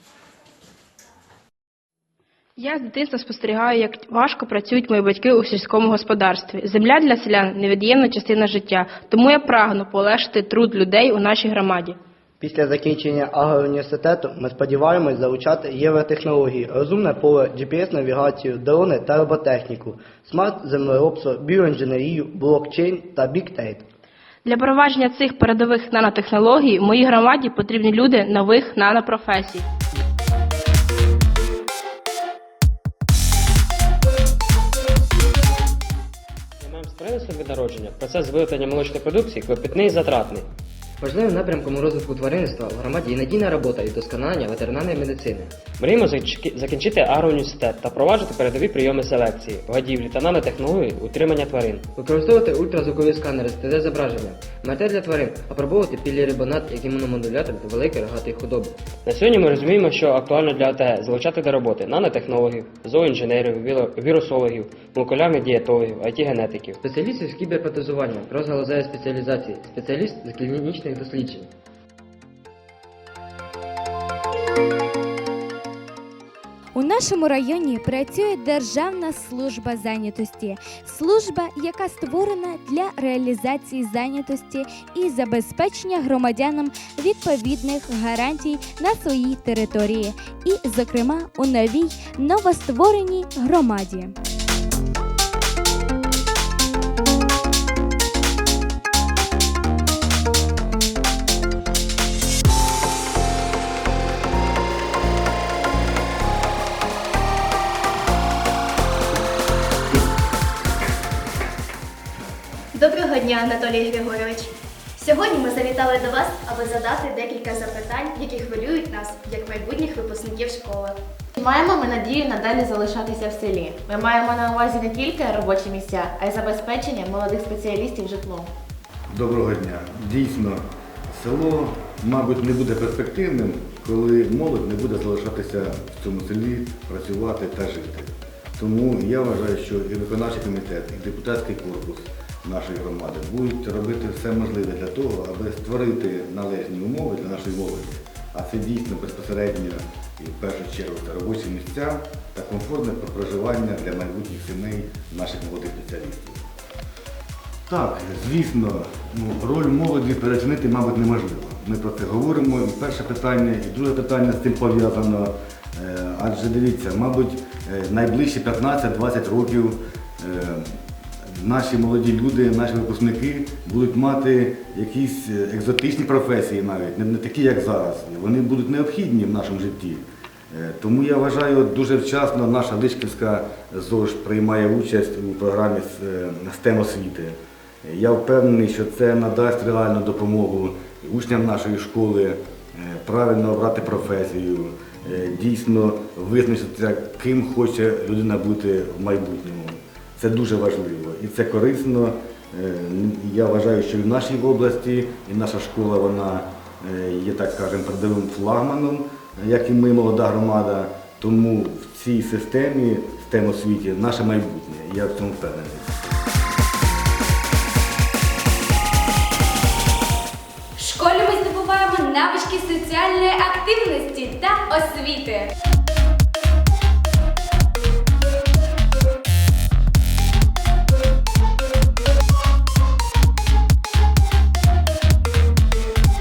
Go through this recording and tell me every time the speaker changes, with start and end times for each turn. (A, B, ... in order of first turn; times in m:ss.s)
0:02.6-0:12.0 A
0:12.4-0:23.8 B
0:24.4-0:29.7 A
0:36.6-0:40.5 C
0:41.0-0:45.6 D
0:45.8-0:51.9 C
0:52.0-0:58.8 D
0:59.0-1:06.8 C
1:06.8-1:11.5 D
1:16.7-1:34.2 E
1:52.7-2:01.0 F
2:01.4-2:08.5 G
2:09.1-2:36.5 H
2:37.7-3:36.0 H
3:40.8-3:45.5 E